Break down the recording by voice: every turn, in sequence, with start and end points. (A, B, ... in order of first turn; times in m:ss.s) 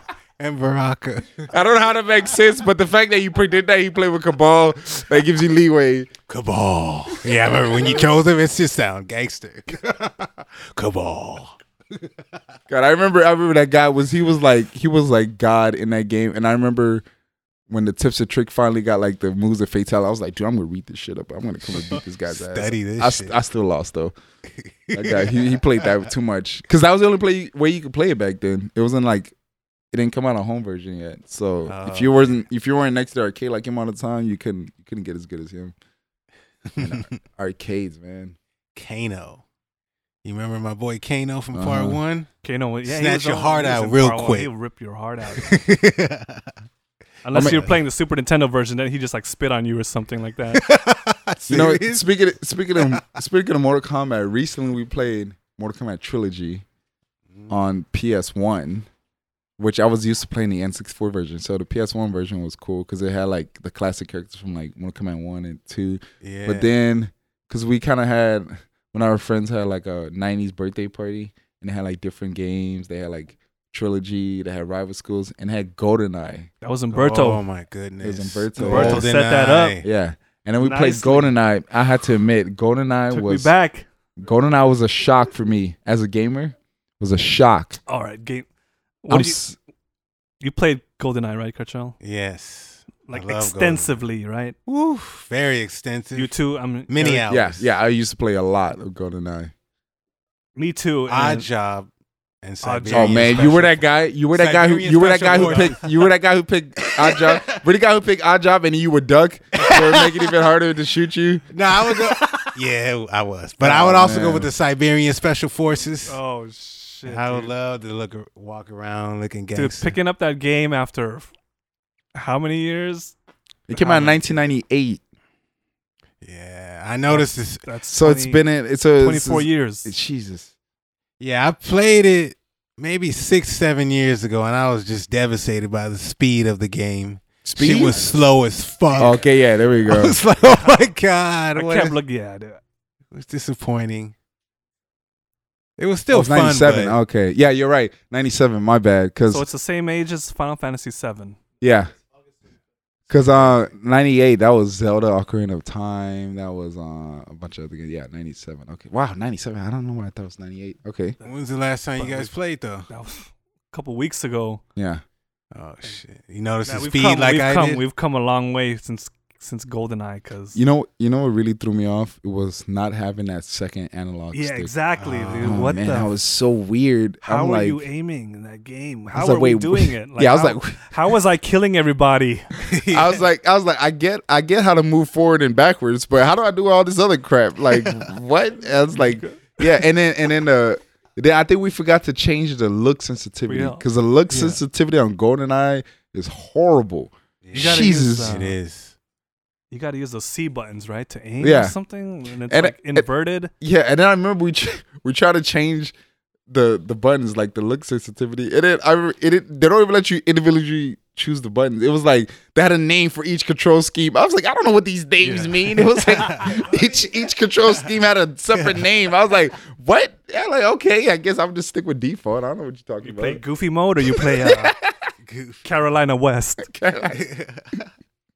0:00.4-0:01.5 A
0:01.5-0:06.1 B
0:06.3-0:12.2 A
0:07.2-0:08.1 B
0:12.7-0:17.0 B
0:17.7-0:24.2 B
0:21.7-0:23.4 A
0:24.6-0:26.0 A
0:24.9-0:29.4 B
0:29.9-0:35.7 B
0:31.7-0:32.4 A
0:36.7-0:37.2 A
0:36.8-0:38.4 B
0:38.8-0:39.4 A
0:40.2-0:42.3 A
0:41.5-0:42.0 B
0:42.4-0:45.6 C
0:42.8-0:44.5 A
0:45.3-0:46.5 A
0:47.2-0:50.6 C
0:47.3-0:47.6 B
0:47.4-0:47.8 A
0:50.5-0:52.1 A
0:51.5-0:56.6 B
0:52.8-0:53.0 A
0:57.5-0:58.9 B
0:59.6-1:16.5 B
1:06.2-1:06.7 A
1:16.6-1:17.4 C
1:16.9-1:19.9 A
1:18.0-1:19.1 B
1:18.6-1:19.8 C
1:19.8-1:23.5 B
1:20.6-1:21.4 C
1:23.1-1:23.9 C
1:24.2-1:27.8 B
1:27.9-1:28.5 C
1:29.0-1:29.4 C
1:29.1-1:29.6 B
1:30.4-1:32.0 C
1:32.0-1:34.0 A
1:33.1-1:34.6 C
1:34.7-1:36.3 A
1:36.2-1:37.3 C
1:36.9-1:37.7 A
1:37.3-1:39.5 B
1:40.6-1:41.5 C
1:41.1-1:41.9 A
1:42.4-1:46.1 A
1:42.6-1:43.5 C
1:42.9-1:51.4 B
1:45.3-1:45.8 C
1:46.9-1:47.6 A
1:49.6-1:50.3 A
1:51.5-1:56.2 A
1:53.6-1:54.5 B
1:56.1-1:57.5 C
1:57.1-2:00.0 A
1:59.6-2:01.3 C
2:02.1-2:03.2 C
2:03.7-2:05.0 B
2:03.7-2:04.3 C
2:06.2-2:07.7 A
2:07.1-2:08.4 C
2:07.9-2:10.5 B
2:09.0-2:09.9 C
2:11.2-2:19.2 A
2:17.4-2:18.2 B
2:19.0-2:19.2 C
2:19.0-2:20.2 B
2:19.8-2:22.0 A
2:20.4-2:20.9 C
2:21.6-2:22.6 C
2:23.1-2:24.2 A
2:25.8-2:27.0 A
2:26.1-2:29.5 B
2:29.3-2:31.4 C
2:31.6-2:31.9 B
2:33.1-2:41.2 B
2:41.2-2:42.9 A
2:42.0-2:42.3 C
2:42.9-2:44.6 C
2:44.8-2:45.0 B
2:45.5-2:47.8 A
2:46.6-2:50.6 C
2:50.6-2:54.8 B
2:54.3-2:56.1 C
2:55.0-2:55.8 A
2:55.4-2:57.8 B
2:57.2-3:02.5 C
2:59.1-3:00.9 B
3:02.6-3:03.2 A
3:02.9-3:18.4 B
3:07.7-3:08.1 A
3:08.9-3:09.8 C
3:13.5-3:14.6 C
3:17.4-3:19.0 A
3:17.5-3:18.6 C
3:19.7-3:23.5 C
3:21.4-3:21.8 B
3:22.5-3:23.1 B
3:23.6-3:25.9 B
3:26.5-3:43.4 B
3:35.2-3:35.5 C
3:35.7-3:36.7 A
3:38.5-3:38.9 A
3:43.0-3:44.8 C
3:44.0-3:45.1 B
3:45.2-3:45.7 A
3:45.6-3:46.7 C
3:46.6-3:47.2 B
3:47.1-3:47.8 A